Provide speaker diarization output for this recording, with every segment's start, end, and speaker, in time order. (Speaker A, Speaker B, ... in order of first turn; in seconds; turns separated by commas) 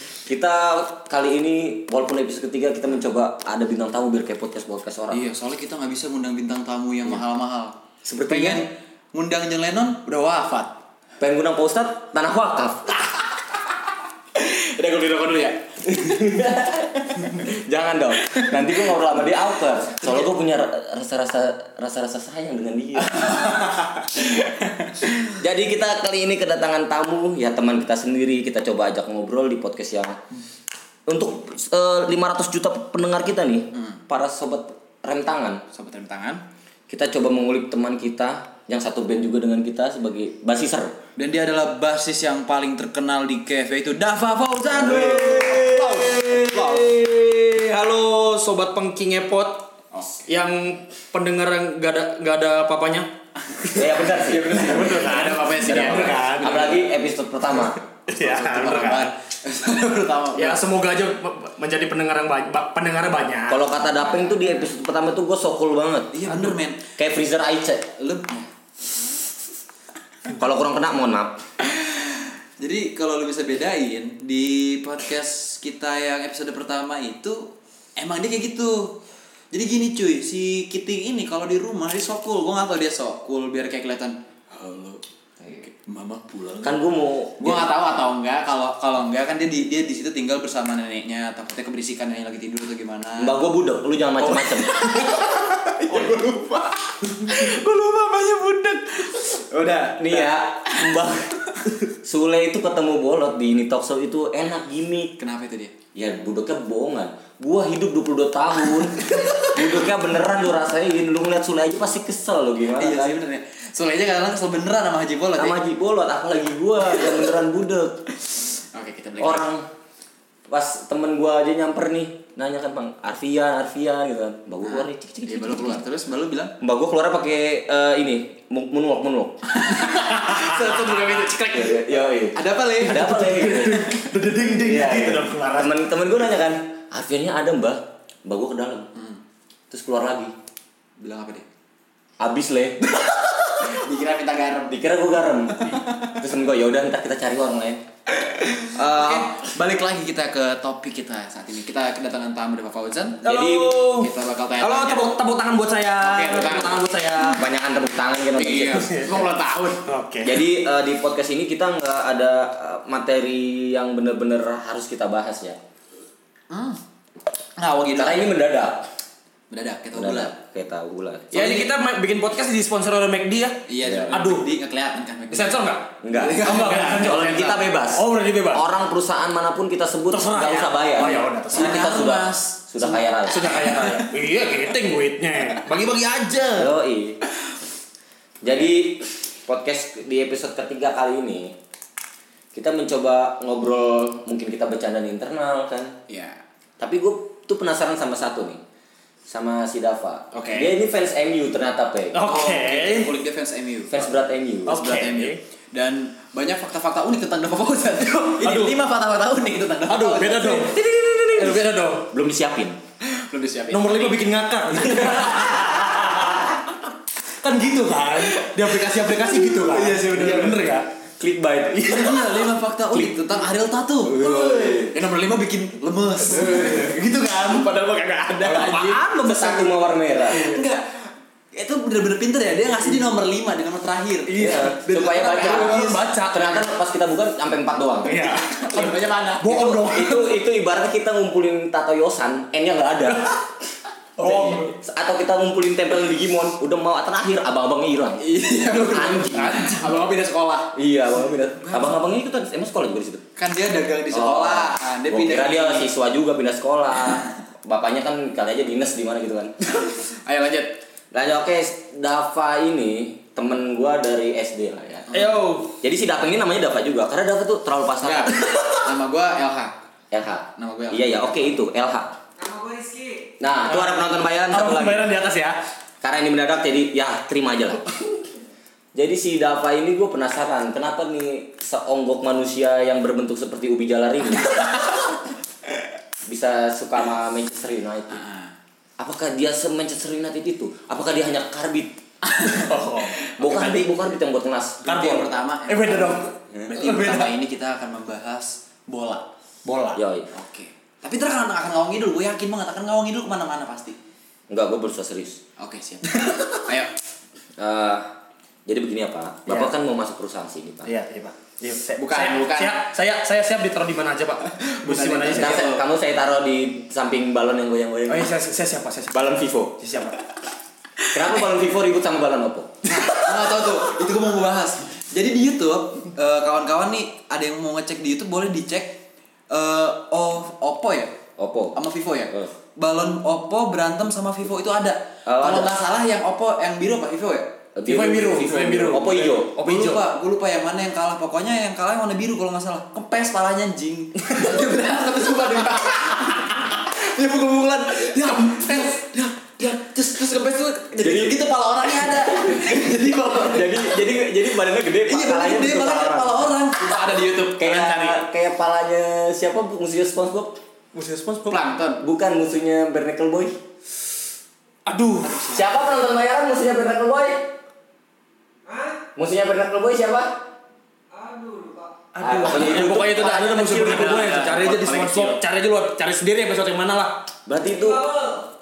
Speaker A: 0.2-5.2, Speaker B: 5.1-10.8, Speaker A: 8.0-8.6, Speaker A: 11.2-13.1, Speaker B: 14.3-16.2, Speaker A: 15.9-23.4, Speaker B: 23.1-25.1, Speaker A: 25.3-30.2, Speaker A: 31.1-35.6, Speaker B: 33.7-34.0, Speaker B: 35.7-36.4, Speaker A: 36.9-41.0, Speaker B: 41.2-46.9, Speaker A: 44.8-46.6, Speaker C: 45.1-49.6, Speaker C: 50.2-53.1, Speaker B: 53.6-56.4, Speaker C: 53.7-56.9, Speaker A: 53.7-54.7, Speaker A: 55.6-57.8, Speaker B: 57.5-60.6, Speaker C: 58.1-59.1, Speaker C: 60.4-63.7, Speaker A: 63.5-66.3, Speaker B: 66.1-66.8, Speaker A: 67.0-67.9, Speaker B: 68.0-68.5, Speaker A: 70.3-71.4, Speaker B: 71.6-78.9, Speaker B: 79.5-86.8, Speaker A: 86.6-87.7, Speaker B: 87.4-93.4, Speaker A: 93.2-94.8, Speaker B: 94.2-101.0, Speaker A: 100.0-101.3, Speaker A: 102.0-105.1, Speaker B: 105.2-105.7, Speaker A: 105.9-113.2, Speaker B: 109.1-109.8, Speaker B: 112.8-115.6, Speaker A: 115.4-118.0, Speaker B: 118.7-119.5, Speaker A: 119.2-119.7, Speaker A: 120.5-125.8, Speaker B: 124.7-126.5, Speaker A: 126.6-129.3, Speaker B: 129.5-134.8, Speaker A: 131.4-133.9, Speaker C: 133.9-135.7, Speaker A: 134.5-138.9, Speaker B: 138.9-139.2, Speaker A: 139.7-140.3, Speaker B: 141.0-141.4, Speaker A: 142.2-143.8, Speaker B: 143.7-144.8, Speaker A: 144.7-147.8, Speaker B: 148.2-155.2, Speaker A: 148.8-149.3, Speaker C: 153.2-157.4, Speaker A: 153.2-153.7, Speaker B: 156.0-156.8, Speaker A: 157.2-159.1, Speaker B: 158.3-159.8, Speaker C: 158.9-159.3, Speaker C: 159.8-160.4, Speaker A: 160.2-165.6, Speaker B: 166.5-166.8, Speaker B: 167.6-168.3, Speaker A: 167.9-168.8, Speaker B: 169.5-170.3, Speaker A: 169.9-171.6, Speaker C: 171.3-174.5, Speaker B: 173.7-177.5, Speaker A: 173.8-174.1, Speaker C: 175.3-178.7, Speaker A: 176.0-183.5, Speaker C: 180.1-181.9, Speaker B: 181.5-184.1, Speaker C: 183.3-186.7, Speaker A: 186.5-187.2, Speaker A: 188.4-191.6, Speaker A: 192.5-195.9, Speaker B: 196.1-196.4, Speaker A: 196.8-198.6, Speaker A: 199.3-202.2, Speaker C: 200.3-200.7, Speaker C: 202.1-203.2, Speaker B: 202.2-204.1, Speaker A: 203.9-204.8, Speaker C: 204.7-205.4, Speaker B: 204.7-210.7, Speaker C: 208.4-208.8, Speaker C: 209.9-212.1, Speaker A: 211.4-212.8, Speaker B: 213.1-214.2, Speaker C: 213.7-216.5, Speaker B: 214.9-215.4, Speaker A: 215.7-216.3, Speaker C: 217.4-220.9, Speaker B: 218.1-220.6, Speaker A: 221.2-221.9, Speaker C: 221.8-223.2, Speaker B: 221.8-227.7, Speaker A: 224.0-224.9, Speaker C: 224.2-224.8, Speaker C: 226.3-229.7, Speaker B: 228.3-229.0, Speaker A: 228.5-230.4, Speaker C: 230.3-230.6, Speaker B: 230.3-236.3, Speaker C: 234.3-236.6, Speaker A: 234.3-238.2, Speaker C: 238.0-240.3, Speaker B: 238.1-239.8, Speaker A: 239.4-243.4, Speaker C: 244.2-244.7, Speaker A: 244.2-249.8, Speaker B: 244.2-244.7, Speaker B: 248.2-250.7, Speaker A: 250.7-253.2, Speaker B: 251.6-252.0, Speaker B: 253.4-255.9, Speaker A: 254.1-259.8, Speaker B: 260.0-260.8, Speaker A: 261.1-268.8, Speaker C: 265.1-265.7, Speaker B: 268.0-269.7, Speaker A: 270.1-272.1, Speaker B: 270.6-271.5, Speaker C: 272.4-275.6, Speaker A: 273.4-275.1, Speaker A: 276.0-278.0, Speaker A: 278.9-284.6, Speaker A: 286.3-288.2, Speaker B: 288.1-288.5, Speaker A: 289.0-292.0, Speaker B: 292.2-292.7, Speaker C: 292.4-293.9, Speaker A: 293.4-294.8, Speaker B: 294.8-299.2, Speaker C: 294.9-297.3, Speaker C: 299.6-300.0, Speaker A: 299.9-300.3, Speaker B: 300.3-303.9, Speaker A: 304.5-305.4, Speaker B: 305.6-306.9, Speaker C: 306.1-306.4, Speaker A: 307.6-308.1, Speaker A: 308.6-310.9, Speaker C: 309.5-309.7, Speaker C: 310.8-315.7, Speaker B: 312.0-312.9, Speaker B: 314.6-315.8, Speaker A: 315.3-318.3, Speaker C: 318.1-320.2, Speaker A: 319.1-319.8, Speaker A: 321.1-322.9, Speaker B: 322.9-331.1, Speaker A: 331.4-331.8, Speaker B: 331.7-337.5, Speaker A: 335.2-335.8, Speaker A: 337.7-339.5, Speaker C: 337.9-340.0, Speaker B: 339.6-354.0, Speaker A: 351.0-351.5, Speaker A: 352.2-356.5, Speaker B: 355.1-358.2, Speaker A: 357.5-360.6, Speaker C: 360.9-361.6, Speaker B: 361.5-362.0, Speaker A: 362.0-363.5, Speaker C: 364.9-365.4, Speaker B: 365.2-365.9, Speaker A: 365.4-367.5, Speaker A: 369.1-370.4, Speaker C: 371.1-378.4, Speaker A: 372.2-374.5, Speaker B: 373.3-375.4, Speaker A: 377.5-378.1